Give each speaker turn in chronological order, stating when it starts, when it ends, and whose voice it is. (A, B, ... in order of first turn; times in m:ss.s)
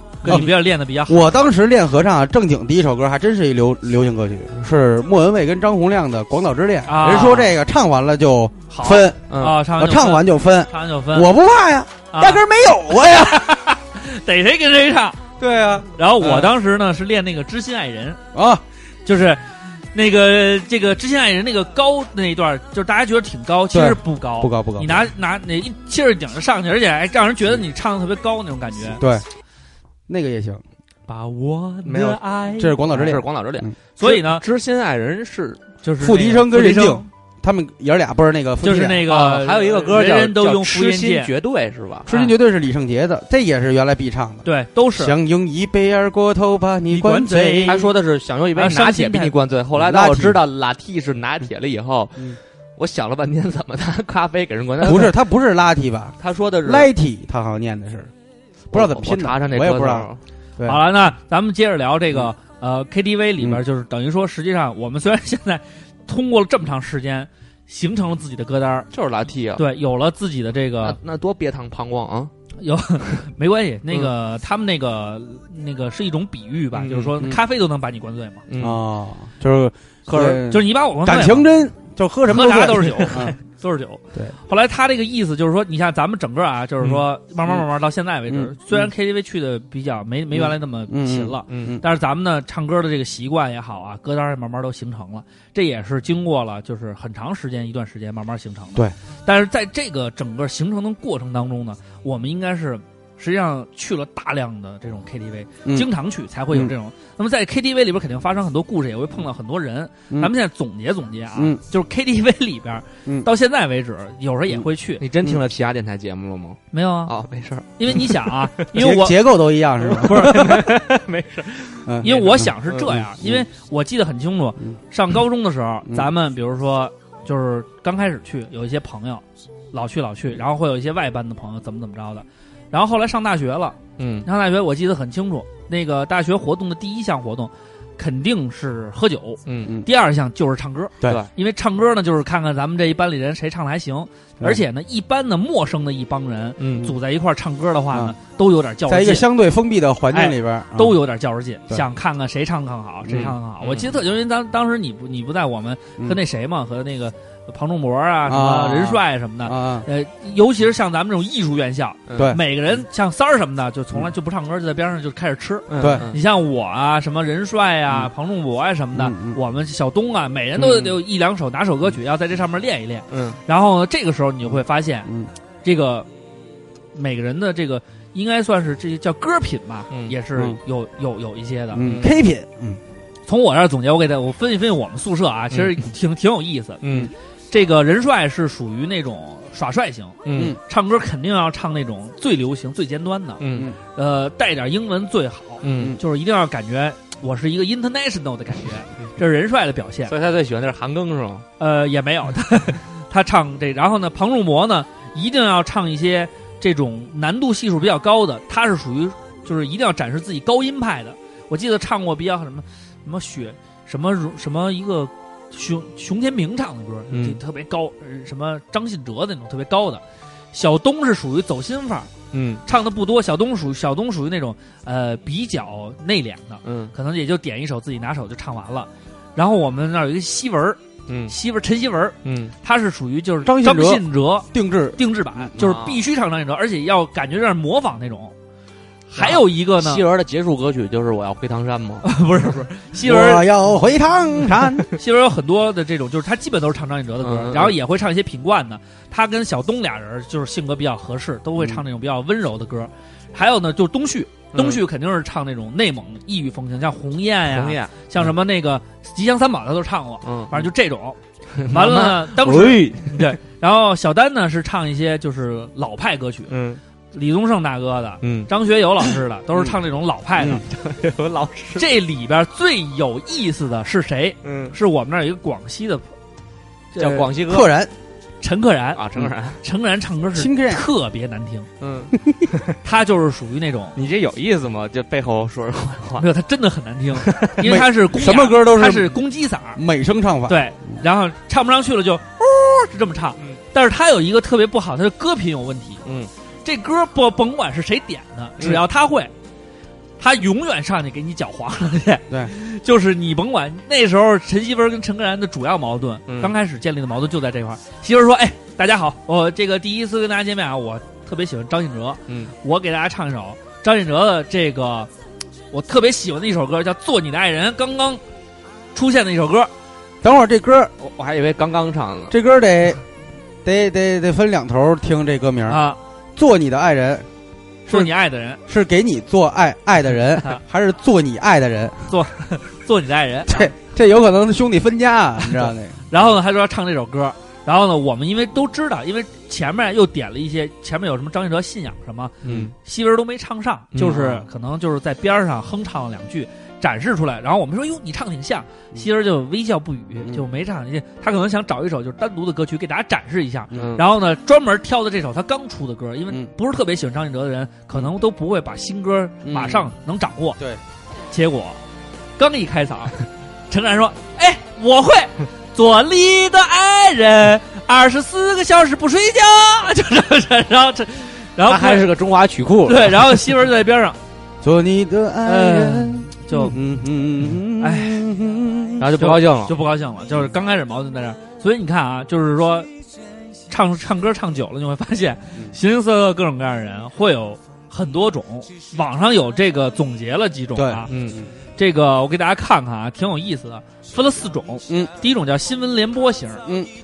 0:00.2-0:01.4 A
0:00.3-0:00.5 B
0:01.1-0:13.5 B
0:06.9-0:07.5 A
0:08.7-0:11.3 A
0:09.3-0:09.6 C
0:12.1-0:15.2 A
0:15.4-0:15.9 B
0:16.0-0:18.2 A
0:18.3-0:18.6 B
0:19.0-0:19.4 A
0:19.9-0:29.0 A
0:23.7-0:25.1 B
0:30.1-0:30.6 B
0:31.1-0:32.8 A
0:31.8-0:32.2 C
0:32.6-0:33.7 B
0:32.9-0:35.7 C
0:34.0-0:34.4 A
0:35.8-0:37.1 A
0:36.0-0:39.1 B
0:38.6-0:41.3 A
0:39.1-0:42.1 C
0:42.1-0:47.8 B
0:44.4-0:45.2 A
0:46.9-0:47.9 A
0:47.6-0:55.2 C
0:48.6-0:49.3 A
0:49.7-0:50.4 B
0:54.8-0:58.1 B
0:56.2-0:56.9 C
0:58.7-1:00.2 C
0:58.7-1:00.8 B
1:00.6-1:08.9 A
1:08.9-1:09.6 C
1:09.6-1:11.0 A
1:10.8-1:12.3 C
1:12.6-1:18.4 A
1:16.7-1:17.2 C
1:18.5-1:18.8 C
1:18.6-1:23.4 B
1:20.1-1:20.4 C
1:20.5-1:21.5 A
1:22.3-1:55.0 A
1:22.8-1:23.3 C
1:28.3-1:28.9 B
1:30.3-1:31.8 B
1:31.5-1:31.8 C
1:51.4-1:51.6 B
1:55.0-1:58.7 C
1:56.7-1:57.1 A
1:57.8-1:59.2 A
1:58.7-2:00.6 B
1:59.9-2:02.9 C
2:00.0-2:00.7 A
2:01.9-2:03.4 B
2:02.0-2:29.3 A
2:14.0-2:14.3 C
2:19.5-2:19.8 C
2:26.6-2:26.9 C
2:28.9-2:31.0 B
2:30.1-2:55.1 A
2:33.1-2:34.0 C
2:38.3-2:39.9 B
2:42.1-2:42.4 C
2:42.2-2:42.4 B
2:45.7-2:46.2 C
2:45.8-2:46.1 B
2:48.9-2:49.4 B
2:50.6-2:50.9 C
2:53.1-2:53.4 C
2:55.6-2:56.1 A
2:56.9-3:01.9 A
3:01.7-3:02.8 B
3:01.8-3:02.1 C
3:03.3-3:06.8 A
3:06.8-3:07.1 C
3:07.5-3:13.4 A
3:10.2-3:10.6 C
3:13.4-3:13.7 C
3:14.0-3:20.1 A
3:15.6-3:16.0 C
3:20.1-3:21.5 C
3:21.6-3:42.1 A
3:37.1-3:37.4 C
3:42.3-3:42.6 C
3:42.6-3:58.3 A
3:46.6-3:46.9 C
3:51.1-3:51.3 C
3:52.2-3:52.5 C
3:53.4-3:55.5 B
3:55.6-3:56.0 C
3:59.1-4:00.0 A
3:59.2-4:02.1 C
4:02.0-4:03.5 A
4:03.0-4:04.9 B
4:04.9-4:26.5 A
4:07.2-4:07.8 C
4:14.5-4:14.8 C
4:17.5-4:17.9 C
4:20.2-4:20.7 C
4:21.6-4:23.4 C
4:26.5-4:26.8 C
4:27.1-4:30.6 A
4:28.2-4:28.5 C
4:30.4-4:31.9 C
4:31.8-4:36.1 A
4:34.4-4:34.8 C
4:36.9-4:37.3 A
4:37.0-4:37.7 C
4:37.5-4:37.9 B
4:38.4-4:39.0 A
4:39.0-4:39.6 C
4:39.6-4:41.7 A
4:40.4-4:40.9 B
4:41.8-4:42.8 C
4:42.8-4:44.0 A
4:44.0-4:46.3 C
4:46.2-4:49.8 A
4:47.2-4:47.5 C
4:47.6-4:49.2 B
4:49.8-4:50.6 B
4:50.5-4:56.0 A
4:56.0-4:56.3 C
4:56.6-4:59.3 A
5:00.2-5:15.1 A
5:06.3-5:06.5 C
5:15.7-5:18.2 A
5:18.9-5:19.7 A
5:20.2-5:20.9 B
5:21.0-5:22.3 C
5:22.3-5:23.0 B
5:23.6-5:25.8 B
5:25.7-5:26.0 A
5:26.4-5:27.3 B
5:27.9-5:28.6 A
5:28.7-5:32.1 B
5:32.1-5:33.7 A
5:33.5-5:36.0 B
5:36.1-6:00.6 A
5:42.4-5:42.7 C
5:43.9-5:44.4 C
5:53.7-5:54.0 C
5:59.4-5:59.9 B
6:01.3-6:01.8 A
6:02.4-6:03.2 A
6:03.7-6:12.1 A
6:11.7-6:13.4 C
6:12.9-6:14.2 A
6:14.6-6:19.1 B
6:15.4-6:16.8 A
6:17.8-6:18.2 A
6:19.0-6:19.7 C
6:19.2-6:22.9 A
6:23.7-6:31.1 A
6:30.8-6:31.5 B
6:31.1-6:31.4 C
6:31.8-6:36.6 A